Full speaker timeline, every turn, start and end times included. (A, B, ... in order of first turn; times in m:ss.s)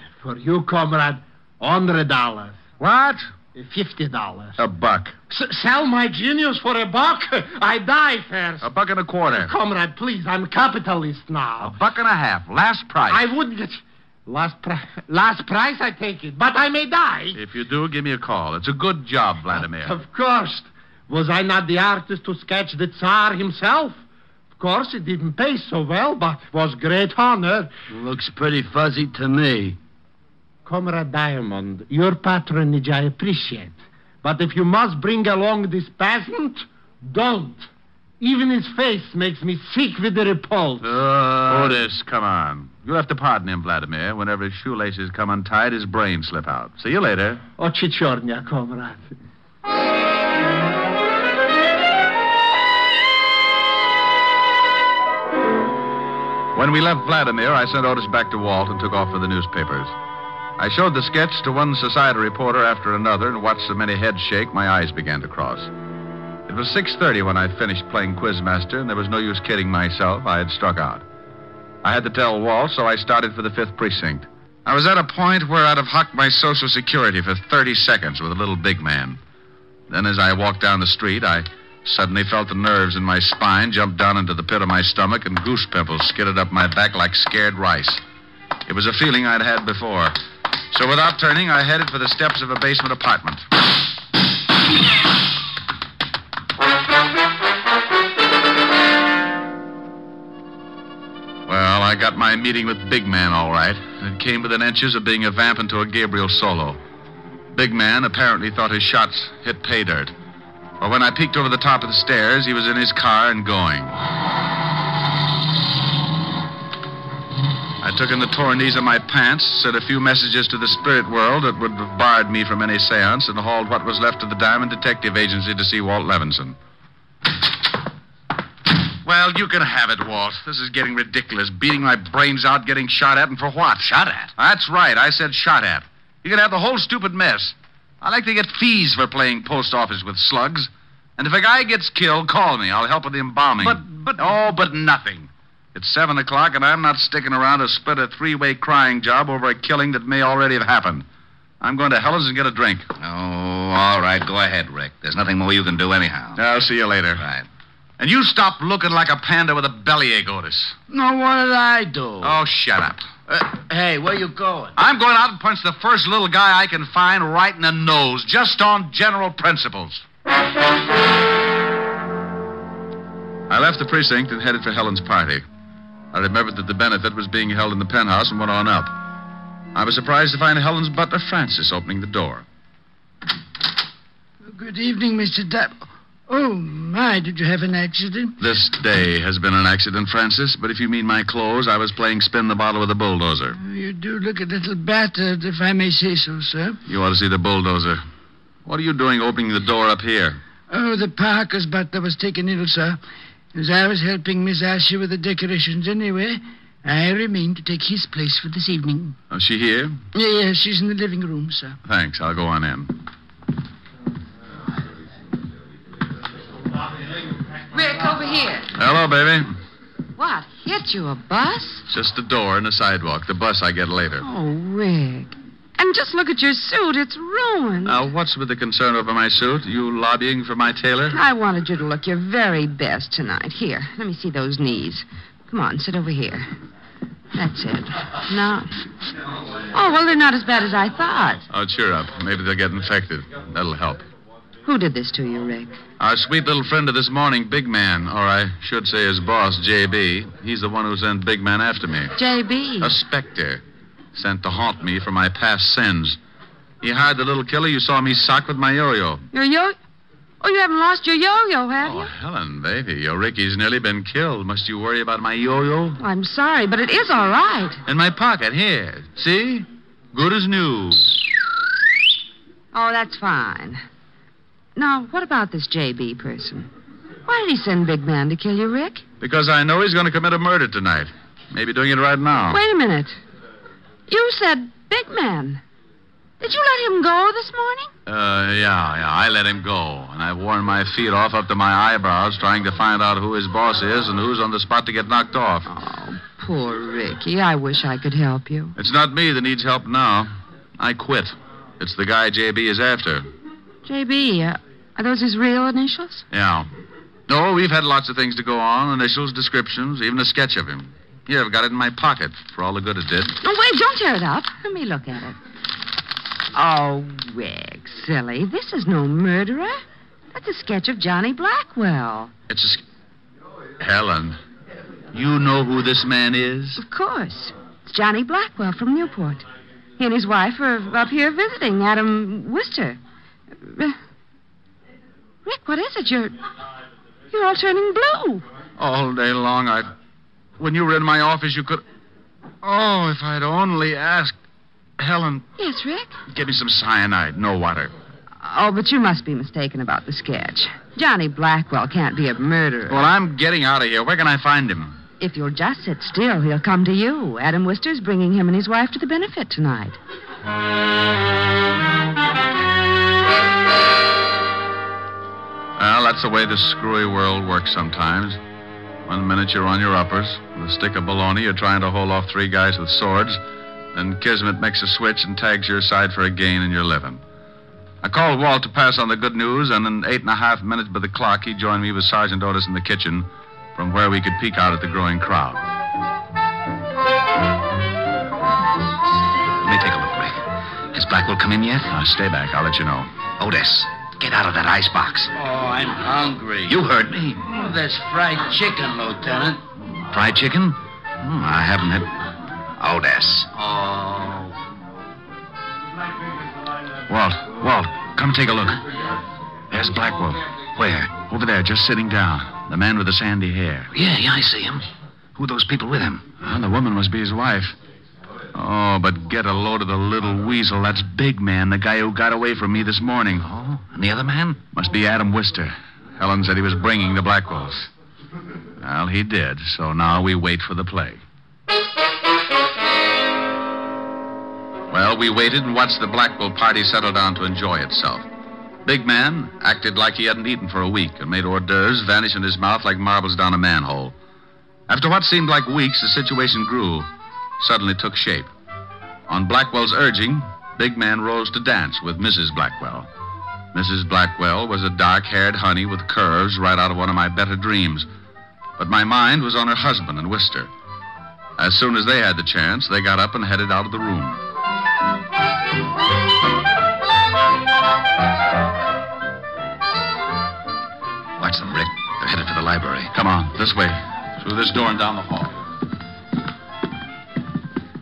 0:00.2-0:02.6 A
0:02.8-0:03.3 B
0:03.5-0:04.6 A
0:04.6-0:05.2 B
0:05.3-0:08.7 A
0:08.6-0:09.5 B
0:09.3-0:11.8 A
0:11.6-0:13.3 B
0:13.1-0:17.4 A
0:17.4-0:20.0 B
0:19.6-0:24.0 A
0:24.6-0:27.7 A
0:27.9-0:29.8 C
0:30.7-0:37.7 A
0:38.2-0:41.7 A
0:40.8-0:47.4 B
0:47.6-0:49.1 A
0:56.6-0:59.9 B
1:00.6-1:05.7 B
1:06.5-1:11.0 B
1:11.8-1:19.2 B
1:19.9-1:28.0 B
1:28.7-1:30.1 B
1:30.7-1:33.4 B
1:41.5-1:46.8 B
1:47.5-1:50.1 B
1:50.8-1:53.9 B
1:57.8-2:06.6 B
2:09.0-2:31.0 B
2:13.8-2:14.3 D
2:31.6-2:32.9 B
2:33.0-2:36.4 D
2:36.4-2:37.2 B
2:37.2-2:37.5 D
2:38.0-2:40.8 B
2:40.9-2:42.4 C
2:42.2-2:43.1 B
2:43.3-2:44.7 C
2:44.8-2:50.0 B
2:53.5-2:55.4 B
2:56.1-2:59.0 B
2:59.7-3:02.4 B
3:04.5-3:08.3 E
3:08.4-3:13.6 B
3:13.6-3:16.8 E
3:16.9-3:18.0 B
3:18.7-3:20.4 B
3:20.7-3:23.0 E
3:23.6-3:29.1 E
3:29.3-3:30.0 B
3:30.2-3:31.8 E
3:31.8-3:32.9 B
3:37.7-3:38.7 F
3:38.8-3:39.5 B
3:40.2-3:41.8 F
3:41.9-3:44.2 B
3:44.2-3:48.0 F
3:47.8-3:51.2 B
3:51.1-3:56.5 F
3:57.4-3:58.7 F
3:59.7-4:01.4 F
4:01.5-4:04.0 B
4:04.6-4:05.8 F
4:06.0-4:12.2 B
4:12.2-4:13.0 F
4:12.8-4:13.6 B
4:14.2-4:16.2 B
4:16.8-4:19.2 B
4:19.3-4:19.8 F
4:20.4-4:22.1 F
4:21.8-4:26.0 B
4:26.0-4:27.8 F
4:27.9-4:31.1 B
4:32.7-4:33.8 F
4:34.8-4:36.7 F
4:37.3-4:39.0 F
4:39.2-4:42.6 B
4:42.5-4:43.2 F
4:44.1-4:45.6 F
4:46.4-4:47.9 F
4:48.1-4:55.7 B
4:55.7-4:58.7 F
4:58.8-5:03.3 B
5:03.9-5:06.2 F
5:06.3-5:06.7 B
5:07.3-5:13.4 B
5:13.4-5:15.4 F
5:16.5-5:19.8 F
5:20.3-5:22.3 F
5:22.5-5:22.8 B
5:23.8-5:24.4 B
5:25.1-5:26.8 B
5:26.8-5:29.4 F
5:30.0-5:33.0 F
5:33.6-5:34.0 F
5:35.4-5:36.4 F
5:37.3-5:38.4 F
5:38.8-5:39.9 B
5:40.6-5:41.8 B
5:42.6-5:44.4 B
5:45.0-5:45.4 B
5:45.6-5:46.2 F
5:46.3-5:47.9 B
5:48.4-5:53.1 F
5:52.9-5:55.0 B
5:55.2-6:00.0 F
6:05.8-6:08.4 B
6:09.1-6:13.4 B
6:13.9-6:17.2 B
6:18.0-6:25.6 B
6:29.6-6:30.4 D
6:30.9-6:31.9 D
6:31.9-6:33.1 B
6:33.4-6:35.3 D
6:36.6-6:37.5 D
6:38.0-6:39.2 C
6:40.1-6:40.7 D
6:41.2-6:42.0 D
6:42.8-6:43.5 D
6:47.1-6:48.8 B
6:49.7-6:50.4 B
6:50.8-6:51.1 D
6:51.1-6:53.9 B
6:53.9-6:54.8 D
6:55.4-6:56.2 D
6:56.4-6:57.8 B
6:58.5-7:03.5 B
7:03.4-7:04.6 D
7:04.7-7:07.9 B
7:08.8-7:11.2 B
7:14.9-7:18.3 B
7:18.8-7:24.1 B
7:24.9-7:27.1 B
7:27.6-7:28.5 B
7:29.3-7:33.1 B
7:33.7-7:38.1 B
7:38.8-7:40.7 B
7:41.6-7:44.4 B
7:51.4-7:53.1 D
7:53.1-7:55.5 B